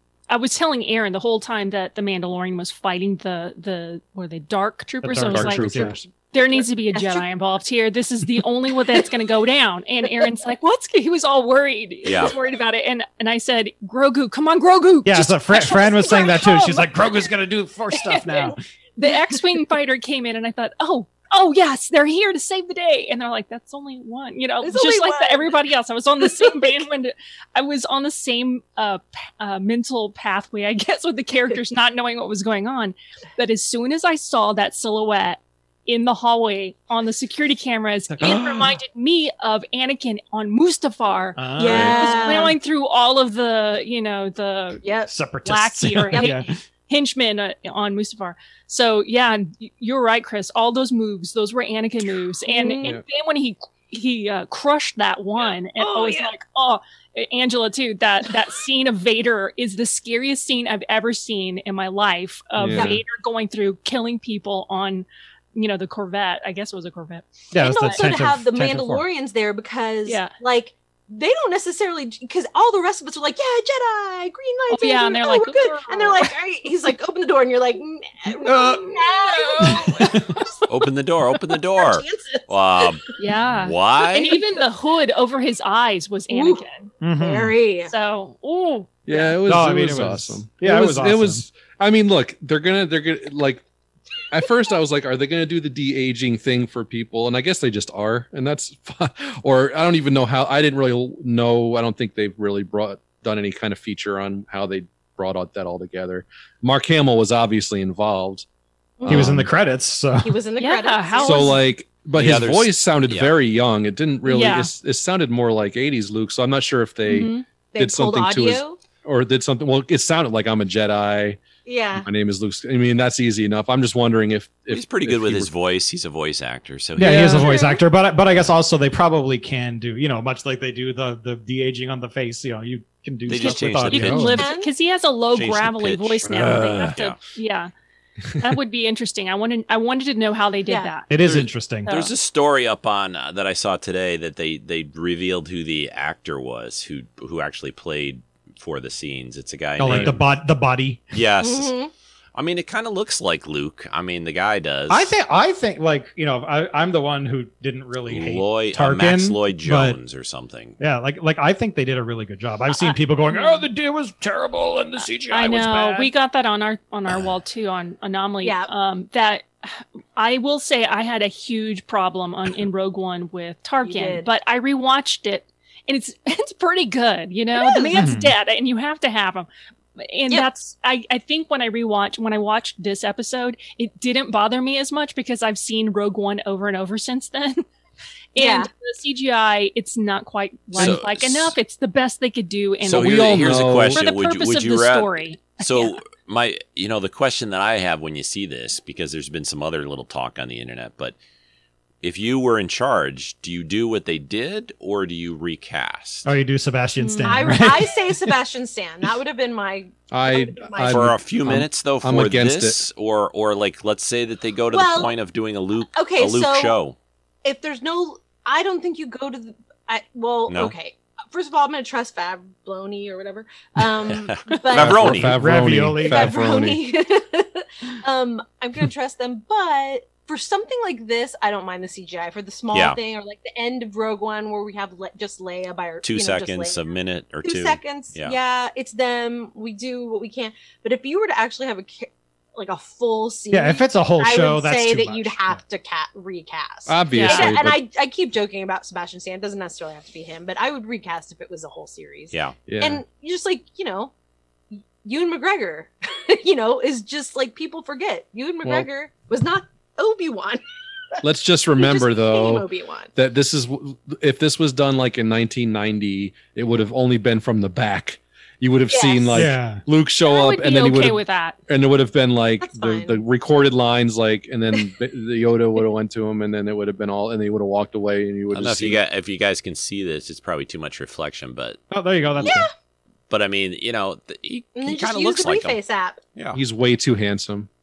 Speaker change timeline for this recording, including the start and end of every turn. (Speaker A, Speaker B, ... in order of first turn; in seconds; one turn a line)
Speaker A: 0.3-16.5
Speaker B: 5.0-6.0
Speaker C: 5.3-6.1
Speaker D: 6.5-7.3
Speaker E: 12.1-12.3
Speaker B: 15.1-18.6
Speaker D: 15.7-16.9
Speaker A: 17.9-44.9
Speaker D: 24.6-25.6
Speaker D: 26.2-26.8
Speaker B: 38.1-38.8
Speaker B: 41.4-42.5
Speaker D: 41.6-42.6
Speaker D: 44.8-45.1
Speaker B: 45.1-46.5
Speaker A: 45.5-68.0
Speaker D: 52.5-52.9
Speaker D: 55.8-56.3
Speaker C: 62.6-63.0
Speaker B: 67.5-69.1
Speaker D: 67.6-80.6
Speaker A: 70.1-70.3
Speaker A: 74.7-76.3
Speaker B: 78.4-78.9
Speaker B: 79.6-80.4
Speaker E: 80.7-83.1
Speaker D: 81.7-83.1
Speaker A: 83.2-86.9
Speaker E: 83.6-84.4
Speaker D: 86.3-86.6
Speaker B: 87.0-87.5
Speaker D: 87.2-87.9
Speaker A: 87.8-89.3
Speaker C: 89.1-93.6
Speaker B: 89.4-91.5
Speaker C: 94.3-108.5
Speaker D: 109.0-109.3
Speaker C: 109.0-109.5
Speaker B: 109.1-110.3
Speaker D: 110.2-111.6
Speaker A: 110.6-111.6
Speaker C: 111.2-121.4
Speaker E: 112.2-113.3
Speaker A: 114.3-114.7
Speaker A: 117.0-117.5
Speaker D: 117.7-118.8
Speaker D: 121.7-122.1
Speaker C: 121.9-125.5
Speaker E: 124.7-127.5
Speaker B: 127.0-134.4
Speaker C: 127.0-127.5
Speaker D: 127.2-127.8
Speaker E: 133.3-134.4
Speaker A: 133.4-137.7
Speaker C: 133.9-134.4
Speaker D: 134.4-134.7
Speaker E: 135.3-137.2
Speaker C: 136.2-137.0
Speaker A: 138.4-141.1
Speaker B: 141.1-141.9
Speaker E: 141.2-150.2
Speaker A: 141.9-142.1
Speaker B: 149.8-151.0
Speaker C: 149.9-150.1
Speaker E: 151.1-151.7
Speaker D: 151.4-151.9
Speaker E: 152.3-155.1
Speaker B: 154.9-160.0
Speaker E: 158.1-160.8
Speaker B: 160.8-166.1
Speaker A: 163.3-163.6
Speaker A: 165.3-187.7
Speaker D: 168.4-168.7
Speaker D: 173.8-174.3
Speaker D: 177.6-178.0
Speaker B: 178.0-178.3
Speaker A: 188.3-196.0
Speaker D: 188.4-188.7
Speaker E: 190.8-191.6
Speaker E: 192.8-201.2
Speaker C: 192.9-194.0
Speaker E: 202.0-206.3
Speaker B: 206.2-208.3
Speaker A: 207.0-207.4
Speaker D: 207.2-211.1
Speaker C: 210.1-212.8
Speaker E: 210.9-217.0
Speaker D: 214.7-215.2
Speaker D: 215.9-216.8
Speaker D: 217.4-225.2
Speaker E: 220.5-220.7
Speaker E: 224.1-225.4
Speaker C: 224.8-226.8
Speaker B: 225.1-226.3
Speaker D: 226.0-236.8
Speaker E: 232.7-233.0
Speaker E: 236.0-238.4
Speaker D: 237.4-254.1
Speaker B: 243.5-245.6
Speaker C: 246.9-247.8
Speaker A: 247.1-247.5
Speaker E: 252.3-252.6
Speaker C: 252.7-253.0
Speaker D: 254.7-260.6
Speaker C: 261.2-279.0
Speaker D: 261.8-263.1
Speaker D: 268.9-269.4
Speaker B: 269.3-269.8
Speaker A: 270.2-271.6
Speaker D: 272.6-273.2
Speaker E: 278.5-281.8
Speaker B: 281.9-282.7
Speaker D: 282.4-282.7
Speaker E: 283.3-285.8
Speaker D: 284.8-286.2
Speaker C: 286.5-287.7